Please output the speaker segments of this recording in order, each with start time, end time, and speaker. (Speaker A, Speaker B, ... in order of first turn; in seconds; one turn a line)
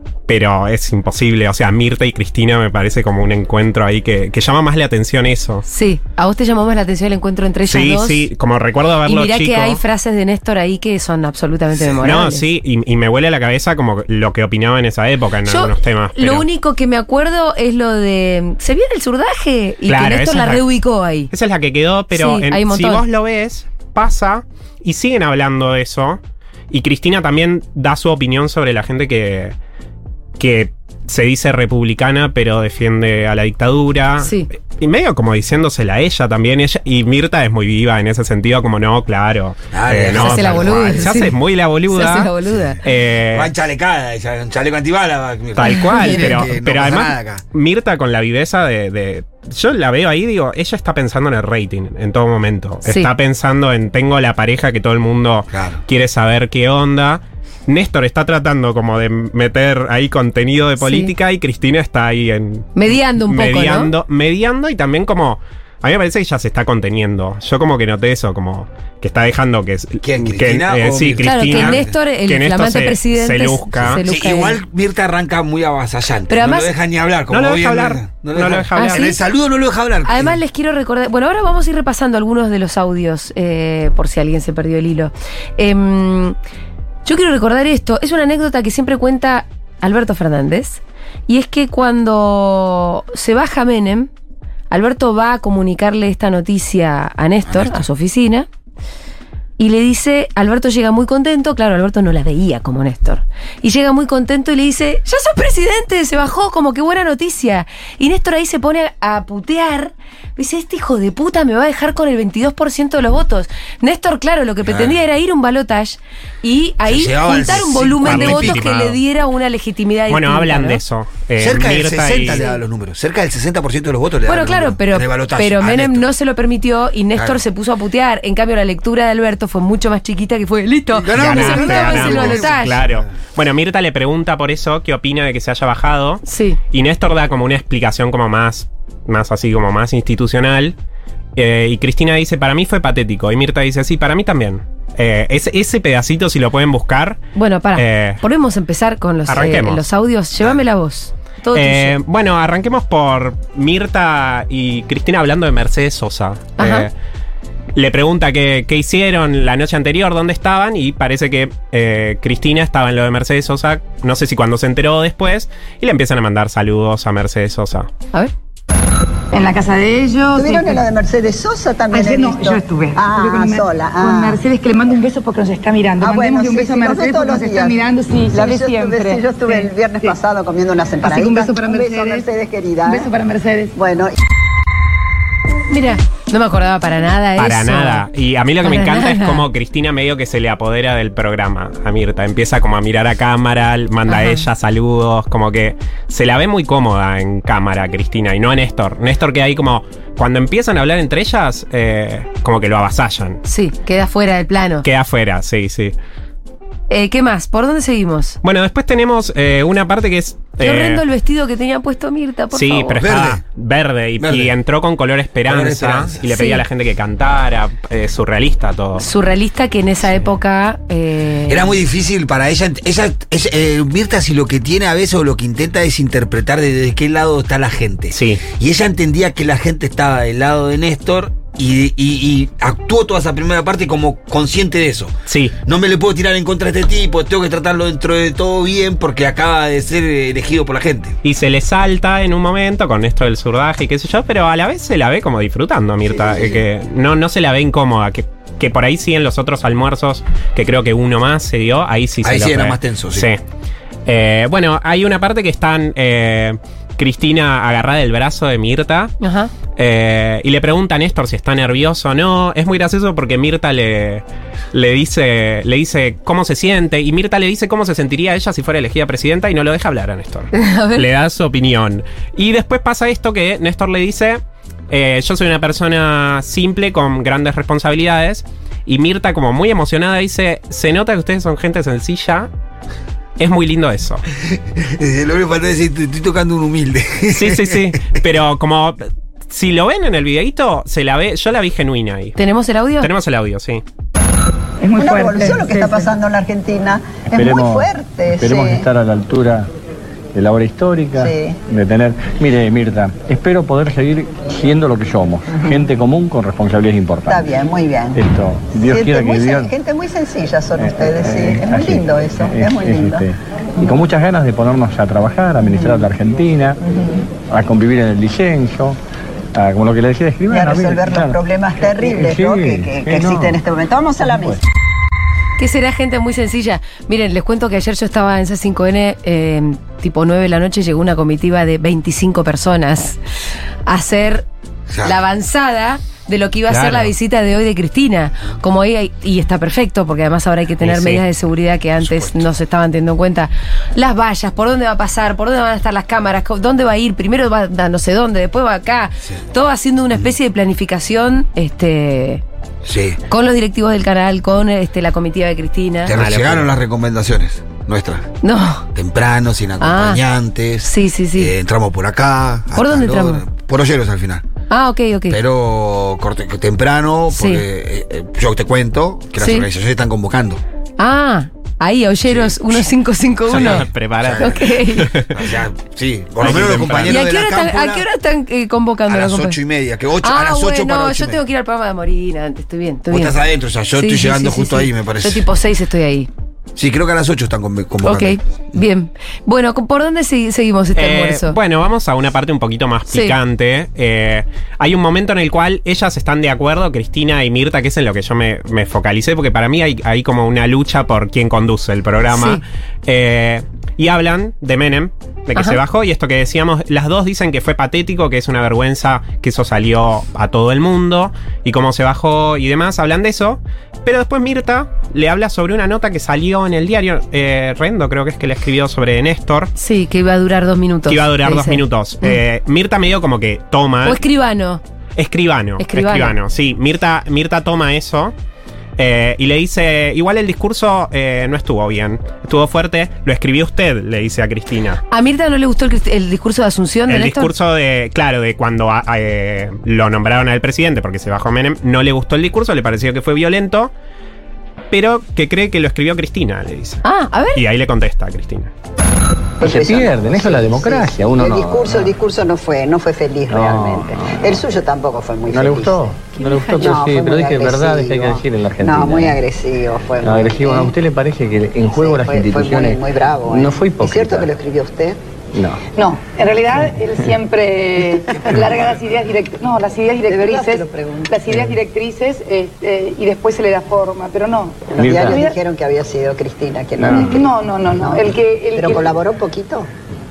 Speaker A: 0.3-5.6
Speaker B: 5.7-8.3
Speaker A: 7.7-9.8
Speaker B: 9.1-12.4
Speaker A: 12.0-16.4
Speaker B: 15.5-21.3
Speaker A: 19.9-20.6
Speaker A: 21.3-29.5
Speaker B: 22.1-23.0
Speaker A: 30.4-42.3
Speaker B: 34.2-34.5
Speaker C: 39.7-41.1
Speaker B: 40.1-41.3
Speaker B: 41.9-42.8
Speaker C: 42.5-42.8
Speaker A: 42.8-43.5
Speaker C: 43.3-47.4
Speaker A: 45.5-74.0
Speaker C: 55.5-55.8
Speaker B: 60.8-61.1
Speaker B: 62.8-63.9
Speaker C: 70.0-71.9
Speaker B: 71.2-74.6
Speaker C: 73.8-80.4
Speaker B: 76.3-76.7
Speaker A: 77.3-79.2
Speaker B: 78.8-79.1
Speaker B: 80.0-86.3
Speaker B: 87.0-94.1
Speaker B: 94.7-98.5
Speaker C: 97.5-97.8
Speaker B: 99.6-120.8
Speaker C: 114.7-115.0
Speaker C: 116.8-118.6
Speaker A: 118.0-119.0
Speaker A: 120.1-122.5
Speaker C: 121.4-126.1
Speaker B: 124.2-132.8
Speaker C: 127.1-127.4
Speaker C: 130.9-133.0
Speaker A: 131.1-140.7
Speaker B: 136.2-136.6
Speaker A: 141.3-147.2
Speaker B: 147.3-152.0
Speaker A: 147.8-148.2
Speaker A: 149.3-149.9
Speaker A: 151.5-156.9
Speaker B: 156.6-156.9
Speaker A: 157.7-167.9
Speaker D: 169.3-170.8
Speaker E: 170.3-174.4
Speaker D: 171.9-180.2
Speaker E: 176.0-183.1
Speaker D: 181.0-182.3
Speaker D: 182.8-183.7
Speaker E: 183.8-184.2
Speaker B: 185.7-188.0
Speaker A: 187.4-203.4
Speaker B: 188.6-189.4
Speaker B: 194.1-194.4
Speaker B: 203.4-204.8
Speaker A: 204.8-205.9
Speaker B: 206.9-208.4
Speaker A: 208.4-211.0
Speaker B: 210.6-213.0
Speaker A: 212.5-219.1
Speaker C: 213.0-213.4
Speaker C: 214.2-214.5
Speaker C: 215.4-216.2
Speaker B: 216.3-216.6
Speaker B: 219.0-221.8
Speaker C: 221.5-235.1
Speaker A: 228.1-228.4
Speaker A: 235.3-235.5
Speaker C: 235.7-241.2
Speaker A: 241.2-253.4
Speaker C: 246.1-246.6
Speaker C: 252.2-253.3
Speaker A: 254.1-259.1
Speaker B: 259.2-259.5
Speaker A: 259.7-282.5
Speaker B: 270.5-271.1
Speaker A: 283.4-284.2
Speaker C: 284.8-287.9
Speaker A: 287.3-292.4
Speaker B: 292.4-293.1
Speaker A: 293.0-293.8
Speaker D: 294.8-296.1
Speaker E: 295.0-298.9
Speaker F: 297.3-299.7
Speaker F: 300.3-307.5
Speaker E: 301.2-301.6
Speaker E: 307.3-308.2
Speaker F: 308.1-309.7
Speaker E: 308.8-313.3
Speaker F: 310.8-316.8
Speaker F: 317.5-319.0
Speaker F: 319.5-321.4
Speaker E: 320.5-324.6
Speaker F: 321.9-323.6
Speaker F: 324.2-324.6
Speaker B: 325.6-333.2
Speaker B: 333.9-334.5
Speaker C: 334.9-335.2
Speaker B: 335.0-352.4
Speaker A: 336.7-337.1
Speaker A: 340.8-341.2
Speaker C: 342.0-342.4
Speaker C: 352.8-353.2
Speaker B: 353.3-356.1
Speaker C: 356.0-358.3
Speaker A: 356.1-356.7
Speaker B: 358.4-358.9
Speaker C: 358.9-364.4
Speaker B: 359.8-360.2
Speaker B: 360.8-361.5
Speaker B: 362.8-363.4
Speaker B: 364.7-365.4
Speaker C: 365.3-370.6
Speaker B: 367.3-367.6
Speaker B: 369.4-369.6
Speaker B: 371.0-375.1
Speaker C: 372.2-372.8
Speaker C: 373.5-374.8
Speaker A: 373.5-375.6
Speaker C: 375.3-378.0
Speaker A: 376.4-377.2
Speaker B: 377.1-379.6
Speaker C: 379.1-381.4
Speaker B: 380.2-383.4
Speaker C: 383.1-385.5
Speaker B: 383.9-386.3
Speaker C: 386.8-388.4
Speaker B: 388.0-391.6
Speaker A: 390.9-419.7
Speaker B: 393.1-393.4
Speaker B: 402.3-402.6
Speaker B: 419.8-422.4
Speaker A: 421.1-424.2
Speaker B: 424.0-424.8
Speaker A: 425.2-428.3
Speaker B: 425.8-426.3
Speaker A: 429.0-435.0
Speaker B: 435.1-437.5
Speaker A: 437.1-443.9
Speaker A: 444.9-447.0
Speaker B: 447.0-447.6
Speaker A: 447.5-448.7
Speaker E: 449.6-456.1
Speaker F: 449.6-452.1
Speaker F: 453.5-454.6
Speaker F: 455.5-459.4
Speaker B: 456.4-456.8
Speaker E: 456.7-460.9
Speaker F: 460.2-464.5
Speaker E: 461.9-465.2
Speaker F: 465.5-465.8
Speaker D: 465.9-475.6
Speaker E: 470.3-471.3
Speaker E: 474.9-479.9
Speaker F: 475.0-475.4
Speaker F: 477.0-477.4
Speaker D: 477.1-479.2